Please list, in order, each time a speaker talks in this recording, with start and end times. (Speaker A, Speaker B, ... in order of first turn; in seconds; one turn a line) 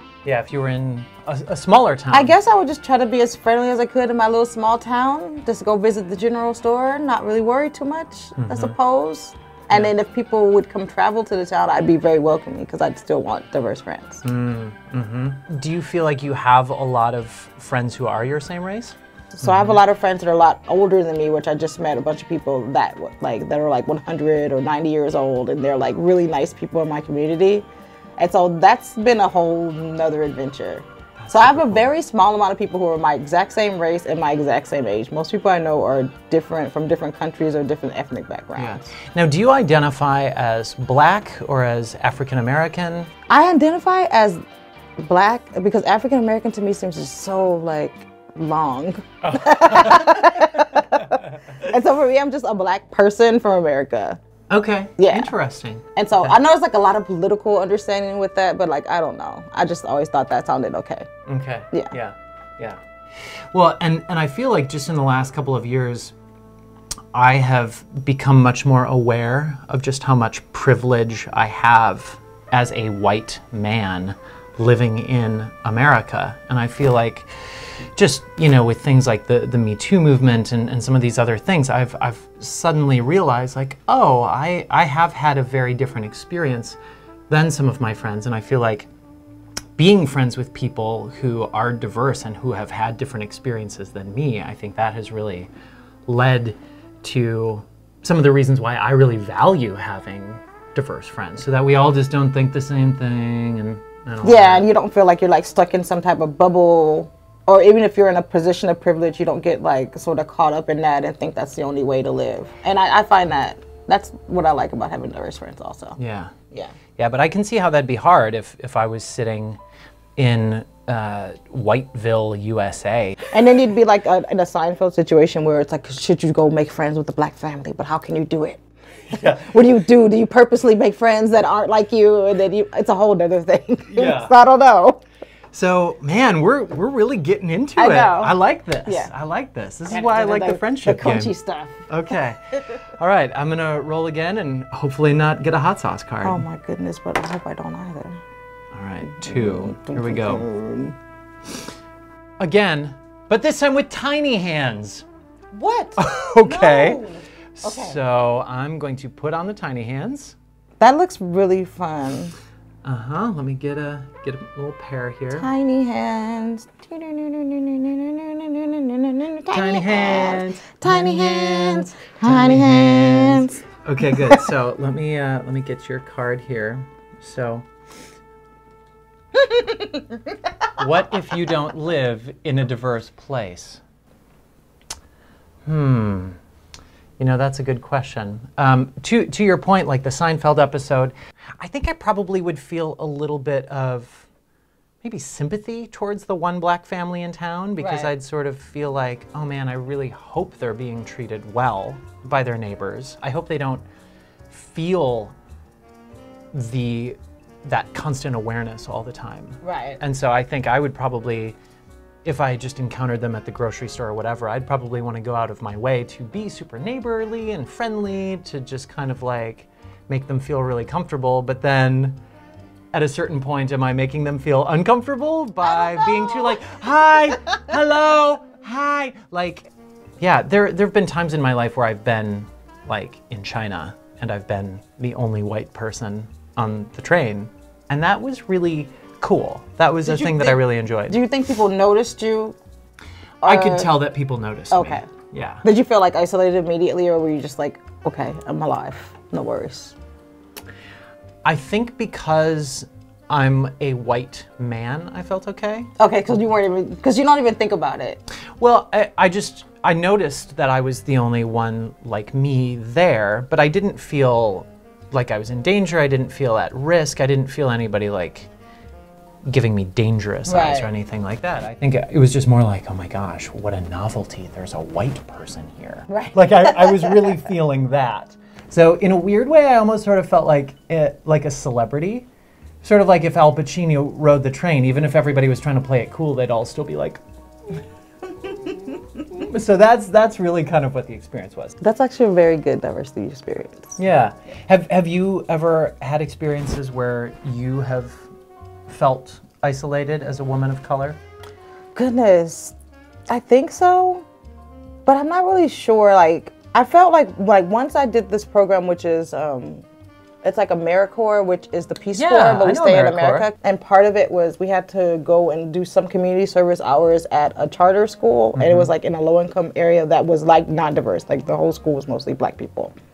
Speaker A: 0.2-2.3
Speaker B: 2.1-14.2
Speaker A: 8.3-8.7
Speaker A: 14.2-19.8
Speaker B: 19.4-27.6
Speaker B: 28.2-38.9
Speaker A: 31.2-31.9
Speaker A: 38.5-43.1
Speaker B: 43.3-44.4
Speaker B: 45.0-54.2
Speaker A: 49.2-51.5
Speaker A: 54.5-56.4
Speaker B: 55.0-55.3
Speaker B: 56.0-61.1
Speaker A: 61.3-62.8
Speaker A: 63.5-66.1
Speaker A: 67.1-86.8
Speaker A: 87.3-88.9
Speaker A: 89.8-95.5
Speaker A: 96.1-104.7
Speaker B: 104.2-116.0
Speaker A: 116.0-116.3
Speaker A: 117.0-119.6
Speaker A: 120.2-123.3
Speaker B: 123.3-135.0
Speaker A: 129.1-129.6
Speaker A: 133.9-134.3
Speaker A: 135.5-141.3
Speaker B: 137.8-139.1
Speaker B: 139.9-142.1
Speaker A: 141.9-146.4
Speaker B: 146.2-148.2
Speaker A: 148.7-150.5
Speaker B: 149.0-150.9
Speaker A: 152.4-155.1
Speaker B: 155.5-158.0
Speaker A: 156.0-157.0
Speaker A: 157.6-160.3
Speaker B: 160.8-162.3
Speaker A: 162.8-165.5
Speaker B: 165.3-173.6
Speaker A: 169.5-177.7
Speaker B: 179.3-180.3
Speaker A: 180.8-183.8
Speaker A: 185.6-186.4
Speaker A: 187.2-194.3
Speaker A: 195.0-203.8
Speaker B: 197.8-198.1
Speaker A: 204.5-205.3
Speaker A: 206.5-211.6
Speaker B: 209.6-210.0
Speaker A: 212.2-222.2
Speaker A: 222.9-241.2
Speaker B: 225.6-226.7
Speaker B: 240.0-242.6
Speaker B: 243.4-243.9
Speaker A: 243.4-245.6
Speaker B: 244.7-245.1
Speaker B: 245.6-249.9
Speaker A: 251.4-255.9
Speaker B: 256.0-258.2
Speaker A: 258.6-268.5
Speaker A: 269.4-282.3
Speaker B: 270.4-270.9
Speaker B: 276.1-277.5
Speaker A: 282.8-287.2
Speaker A: 288.5-291.8
Speaker B: 291.8-294.0
Speaker A: 294.0-298.3
Speaker A: 298.9-301.2
Speaker B: 301.9-302.8
Speaker B: 303.3-304.2
Speaker B: 305.1-309.8
Speaker B: 310.4-322.9
Speaker A: 312.1-313.5
Speaker A: 318.5-318.9